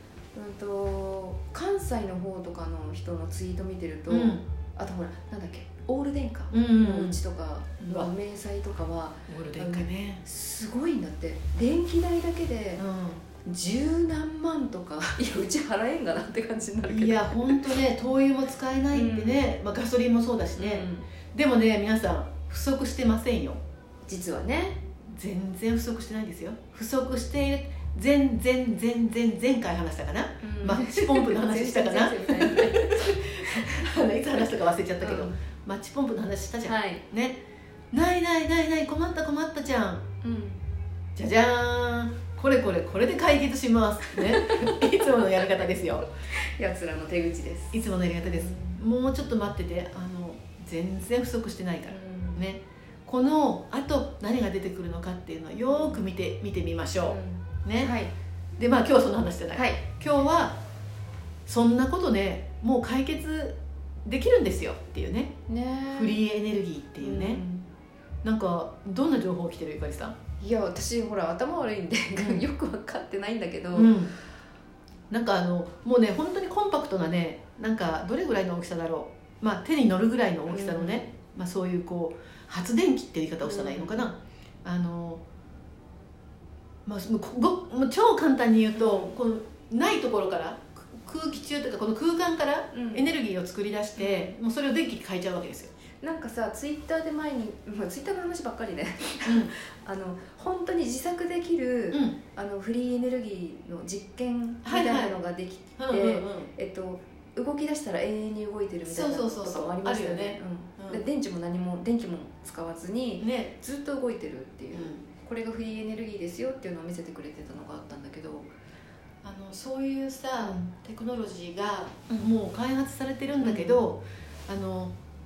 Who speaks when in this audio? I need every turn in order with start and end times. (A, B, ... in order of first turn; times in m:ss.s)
0:00.3-0:12.8 A
0:04.1-0:04.4 B
0:06.5-0:07.2 B
0:07.8-0:08.1 B
0:09.3-0:10.2 B
0:12.8-0:13.2 B
0:13.4-0:17.8 A
0:16.8-0:23.6 B
0:18.9-0:19.4 A
0:20.6-0:21.0 A
0:24.1-0:24.8 A
0:25.1-0:37.4 B
0:30.4-0:33.8 A
0:35.0-0:35.3 A
0:36.6-0:37.0 A
0:37.9-0:40.0 B
0:40.2-0:40.6 A
0:41.2-0:46.1 B
0:44.2-0:44.8 A
0:45.4-0:48.8 A
0:47.7-0:57.9 B
0:51.9-0:52.4 A
0:55.7-0:56.0 A
0:57.0-0:58.1 A
0:58.6-1:00.6 B
0:59.5-0:59.8 A
1:01.4-1:05.3 B
1:05.5-1:06.2 A
1:05.9-1:07.4 B
1:07.0-1:07.7 A
1:08.2-1:10.2 B
1:10.4-1:14.0 A
1:12.2-1:12.4 B
1:13.7-1:14.1 B
1:15.1-1:25.2 B
1:20.5-1:21.1 A
1:23.4-1:24.1 A
1:26.8-1:35.7 B
1:28.8-1:29.2 A
1:32.7-1:33.1 A
1:34.0-1:34.3 A
1:36.0-1:58.5 A
1:39.2-1:39.5 B
1:41.9-1:42.2 B
1:44.6-1:45.2 B
1:45.8-1:46.5 B
1:48.8-1:51.0 B
1:53.2-1:53.5 B
1:54.7-1:55.0 B
1:59.2-2:04.9 B
2:00.4-2:00.6 A
2:03.4-2:03.8 A